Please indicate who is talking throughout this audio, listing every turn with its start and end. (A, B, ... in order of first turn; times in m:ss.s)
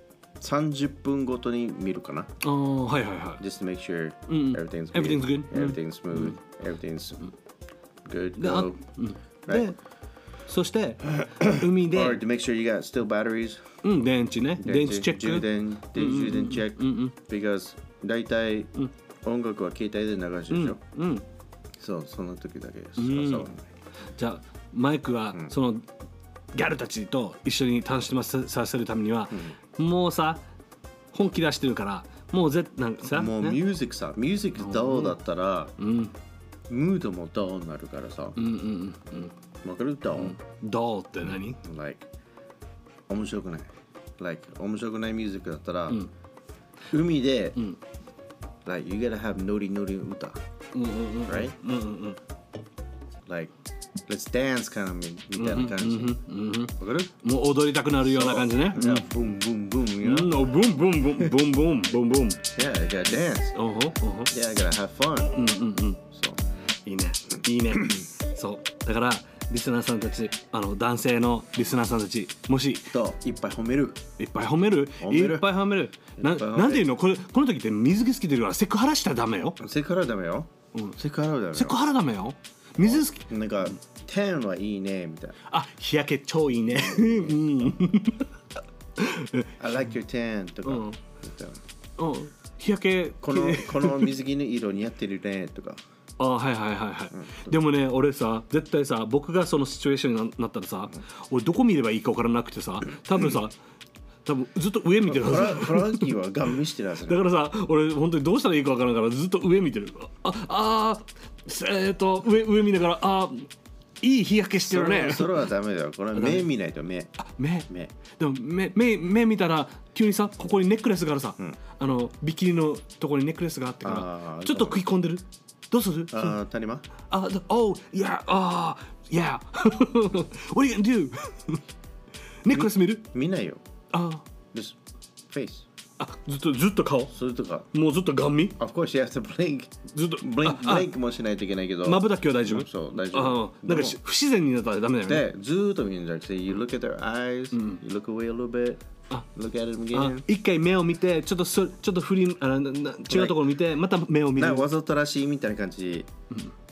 0:00.4-0:02.3 A
0:02.4-0:03.4 B
0:03.4-0:07.3 A
0:04.3-0:06.4 B
0:08.0-0:08.8 A
0:08.4-0:09.8 B
0:10.5-0:12.2 B
0:11.2-0:13.7 A
0:13.8-0:17.2 B
0:14.6-0:18.7 A
0:19.2-0:20.8 A
0:20.5-0:21.2 B
0:21.8-0:23.6 A
0:23.0-0:23.5 B
0:24.2-0:25.9 B
0:26.5-0:30.4 B
0:29.3-0:29.6 A
0:31.1-0:33.6 B
0:33.1-0:35.7 A
0:34.6-0:35.2 B
0:35.8-0:36.1 B
0:36.7-0:38.4 A
0:38.4-0:39.3 B
0:39.6-0:40.4 A
0:40.2-0:41.6 B
0:41.6-0:42.1 A
0:43.1-0:46.0 A
0:46.9-0:47.6 A
0:48.6-0:50.4 A
0:50.7-0:52.2 B
0:51.3-0:51.6 A
0:53.3-0:53.5 A
0:54.1-0:56.2 A
0:55.3-0:59.1 B
0:56.8-0:57.1 A
0:58.0-1:00.5 A
1:00.0-1:02.4 B
1:02.5-1:03.6 A
1:03.6-1:04.3 B
1:04.3-1:05.4 A
1:05.4-1:06.0 B
1:06.1-1:06.4 A
1:06.8-1:12.9 B
1:12.9-1:14.0 A
1:14.2-1:19.6 B
1:15.0-1:15.5 A
1:16.2-1:16.9 A
1:19.6-1:21.8 A
1:20.7-1:21.0 B
1:21.5-1:23.2 B
1:22.8-1:25.4 A
1:25.5-1:28.3 B
1:26.7-1:27.4 A
1:29.0-1:29.6 B
1:29.6-1:31.6 A
1:30.7-1:31.0 B
1:32.0-1:34.2 B
1:33.2-1:35.8 A
1:36.2-1:43.6 B
1:37.1-1:37.6 A
1:44.2-1:46.1 B
1:45.1-1:47.2 A
1:47.1-1:53.5 B
1:54.0-1:55.4 B
1:54.6-1:57.2 A
1:56.2-1:56.5 B
1:57.2-2:06.4 B
1:57.7-1:58.0 A
2:03.8-2:04.8 A
2:06.1-2:06.8 A
2:07.1-2:11.6 B
2:12.4-2:13.0 B
2:12.5-2:13.6 A
2:13.9-2:14.2 B
2:15.3-2:15.7 A
2:16.0-2:17.1 B
2:17.1-2:17.7 A
2:17.7-2:18.6 B
2:18.6-2:24.0 A
2:19.9-2:20.9 B
2:21.8-2:25.2 B
2:25.1-2:28.8 A
2:27.5-2:27.8 B
2:29.3-2:30.2 A
2:29.9-2:34.7 B
2:33.1-2:33.4 A
2:34.4-2:36.1 A